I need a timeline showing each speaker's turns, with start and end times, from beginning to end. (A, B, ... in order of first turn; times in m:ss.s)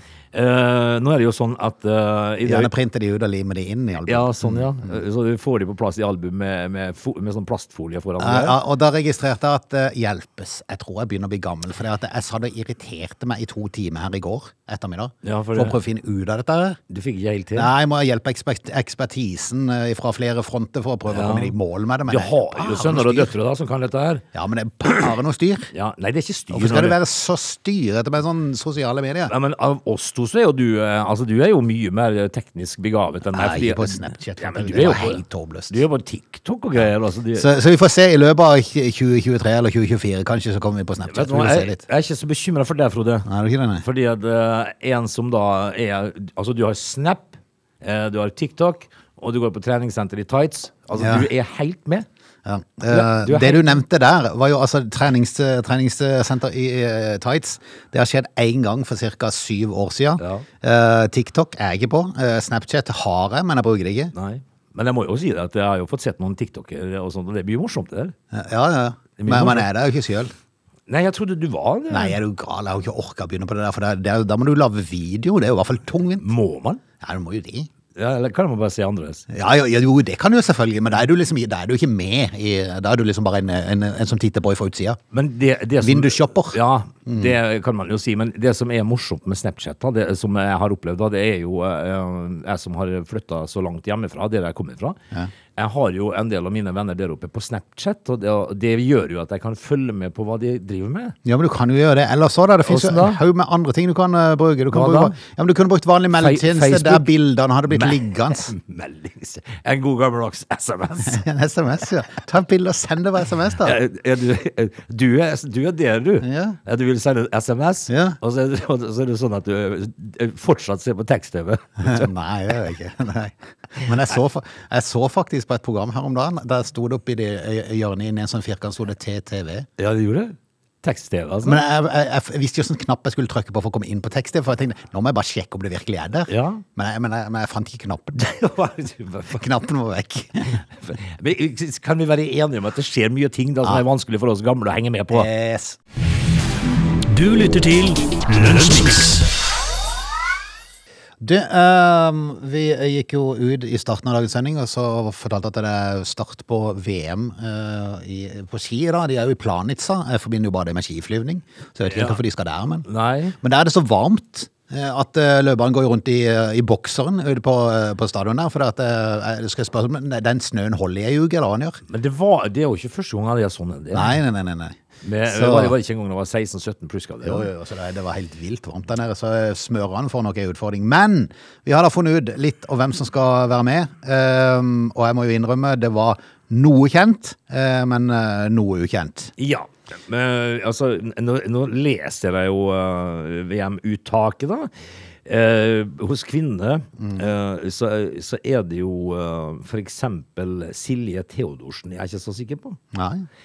0:00.3-0:02.7 A
0:02.4-0:05.0 B
0:04.1-0:08.6 A
0:08.2-0:16.8 B
0:15.2-0:15.8 A
0:16.9-0:17.7 A
0:17.6-0:23.3 B
0:21.1-0:21.6 A
0:22.1-0:24.2 A
0:24.3-0:25.7 B
0:25.7-0:27.0 A
0:26.5-0:29.3 B
0:29.3-0:37.5 A
0:33.3-0:35.8 B
0:37.4-0:41.8 B
0:41.1-0:43.3 A
0:43.3-0:43.8 B
0:43.8-0:52.1 A
0:51.0-0:51.3 B
0:52.5-1:04.1 B
0:52.9-0:53.8 A
1:00.2-1:00.5 A
1:04.1-1:08.2 A
1:08.3-1:10.3 B
1:09.2-1:09.7 A
1:10.9-1:12.2 A
1:11.9-1:16.3 B
1:16.2-1:16.8 A
1:17.0-1:17.7 B
1:18.0-1:19.3 A
1:19.3-1:25.0 B
1:25.1-1:35.0 A
1:25.8-1:27.4 B
1:35.6-1:41.2 A
1:41.2-1:48.5 B
1:42.6-1:43.2 A
1:44.7-1:45.1 A
1:46.1-1:47.1 A
1:47.7-1:51.2 A
1:51.1-1:53.8 B
1:53.6-2:02.1 A
1:56.2-1:56.6 B
1:57.9-1:58.2 B
2:01.8-2:09.7 B
2:09.8-2:11.6 A
2:11.4-2:18.3 B
2:16.3-2:16.6 A
2:18.2-2:19.4 A
2:19.3-2:20.6 B
2:20.8-2:25.3 A
2:25.1-2:25.8 B
2:27.1-2:29.3 C
2:31.2-2:42.9 B
2:41.9-2:42.2 A
2:42.9-2:43.4 A
2:43.4-2:51.8 B
2:51.9-2:54.2 A
2:53.9-2:55.7 B
2:55.0-2:57.5 A
2:57.2-3:09.3 B
3:09.4-3:14.7 A
3:15.2-3:22.8 A
3:22.9-3:23.3 B